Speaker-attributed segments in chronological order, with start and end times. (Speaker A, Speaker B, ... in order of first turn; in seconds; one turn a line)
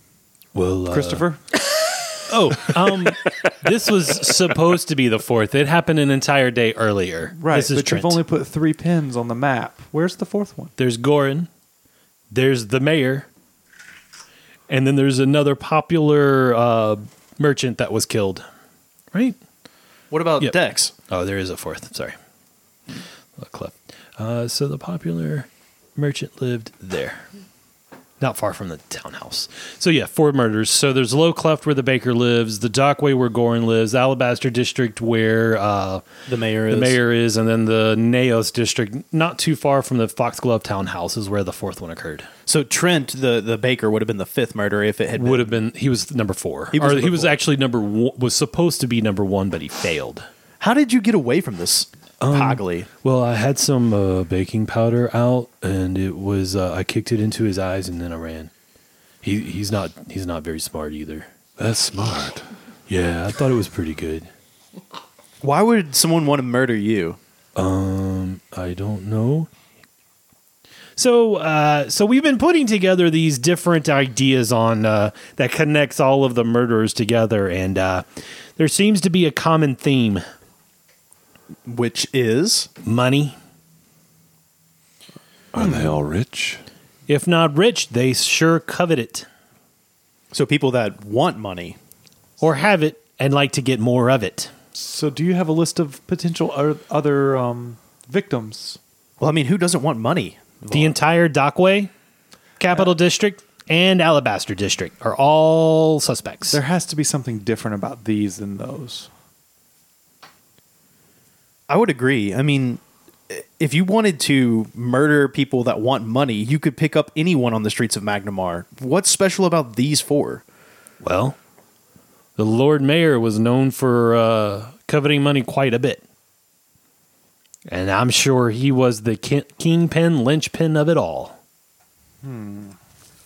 Speaker A: 0.6-1.3
Speaker B: 0.9-1.4
Speaker A: 2.3-8.2
Speaker B: 7.4-10.7
Speaker A: 10.8-11.5
Speaker A: 12.3-13.3
Speaker A: 14.7-18.4
Speaker C: 20.1-20.9
Speaker A: 20.4-22.2
Speaker A: 23.4-27.3
Speaker A: 28.2-36.1
Speaker C: 36.3-37.0
Speaker A: 36.7-42.3
Speaker C: 42.5-45.5
Speaker A: 45.2-50.3
Speaker C: 46.7-47.4
Speaker C: 50.6-52.9
Speaker A: 52.2-58.5
Speaker A: 59.2-61.3
Speaker D: 61.6-62.5
Speaker A: 62.9-64.3
Speaker C: 65.4-67.2
Speaker A: 67.6-69.5
Speaker A: 71.0-78.0
Speaker A: 78.6-80.2
Speaker C: 81.7-82.7
Speaker A: 82.8-83.4
Speaker D: 85.5-86.6
Speaker B: 85.6-85.9
Speaker A: 87.1-89.3
Speaker C: 90.3-91.8
Speaker A: 92.4-94.5
Speaker B: 94.7-98.8
Speaker C: 99.2-101.0
Speaker A: 100.7-101.9
Speaker A: 102.6-106.6
Speaker B: 106.5-109.1
Speaker C: 111.7-120.4
Speaker A: 121.0-121.4
Speaker A: 122.4-126.0
Speaker A: 127.7-131.4
Speaker B: 132.2-132.8